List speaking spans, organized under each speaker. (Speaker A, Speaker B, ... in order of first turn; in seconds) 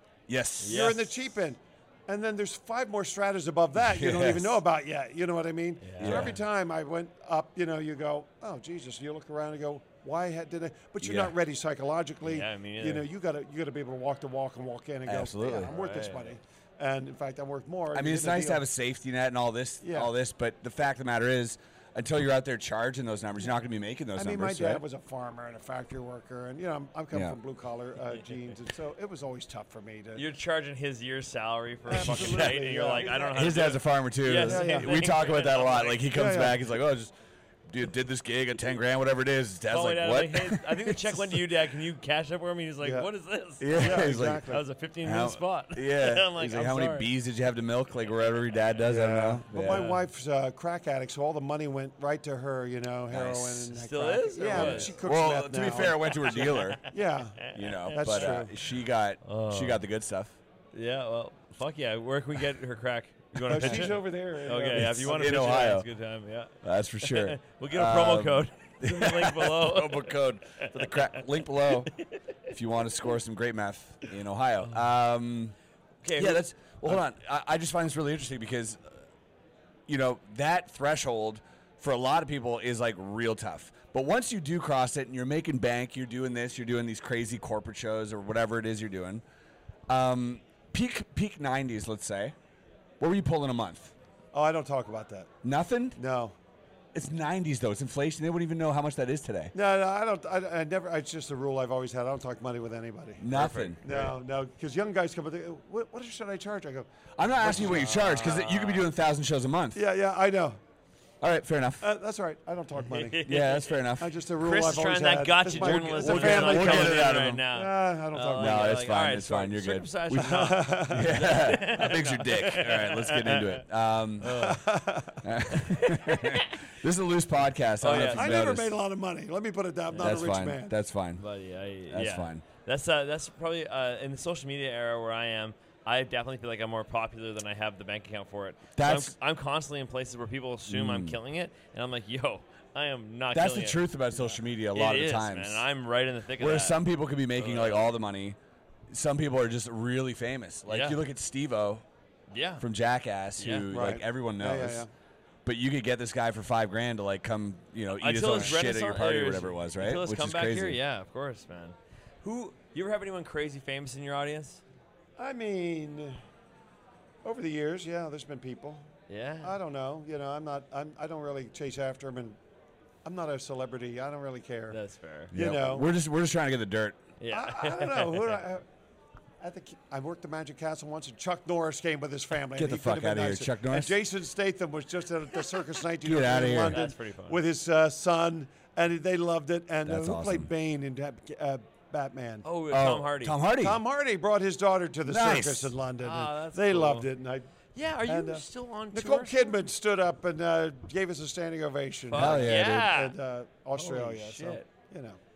Speaker A: 0.3-0.8, 3.8-4.6, 6.0-6.4, 11.0-11.3, 15.1-15.7, 17.9-24.8, 33.3-37.1, 37.7-41.4, 43.6-44.5, 45.0-49.9, 53.1-53.7, 54.5-56.8, 57.5-60.4, 63.5-63.9, 64.7-65.9, 66.6-71.9, 72.5-75.5, 76.2-79.0, 79.9-89.2, 89.9-92.3, 93.0-93.9, 95.4-96.0, 96.9-99.5, 103.2-104.1, 107.2-109.8, 111.2-111.9, 113.2-114.1, 115.5-117.5, 118.4-124.5, 125.2-128.8, 130.0-131.2, 131.9-132.4, 138.8-139.1, 140.7-141.2, 143.3-145.6, 146.4-148.4, 148.9-151.8, 152.6-154.8, 155.4-160.8, 175.3-177.0, 182.5-183.9, 186.0-186.8, 189.8-190.5, 192.7-193.8, 195.1-195.7, 202.1-202.9
Speaker B: 0.6-1.2, 5.8-6.4, 12.2-13.1, 15.7-16.4, 30.1-36.1, 39.7-47.1, 49.6-50.0, 53.7-55.0, 55.6-58.4, 59.2-59.8, 60.7-72.1, 76.0-77.0, 103.4-104.0, 107.5-108.9, 112.8-123.6, 124.2-124.7, 125.5-126.5, 127.8-128.4, 129.9-130.2, 131.2-143.8, 144.7-146.8, 147.3-147.8, 150.7-151.0, 152.3-152.6, 153.4-153.7, 158.0-164.6, 169.1-169.5, 174.7-175.3, 177.2-178.4, 186.7-187.4, 192.4-193.4, 196.0-197.1, 197.7-199.6, 202.1-203.2, 203.8-204.6
Speaker C: 0.6-18.6, 19.8-20.1, 24.1-30.2, 31.9-33.4, 34.4-35.0, 36.1-36.6, 42.8-43.1, 43.7-44.6, 48.9-58.5, 63.5-65.4, 94.3-95.3, 95.9-96.3, 99.5-108.1, 109.7-110.6, 111.8-113.3, 114.0-118.8, 120.2-121.4, 124.2-125.2, 127.9-130.7, 153.7-154.9, 165.2-166.2, 167.2-168.9, 169.4-172.4, 173.0-174.8, 175.3-175.9, 177.3-178.6, 179.4-192.4, 193.6-197.5, 198.0-205.2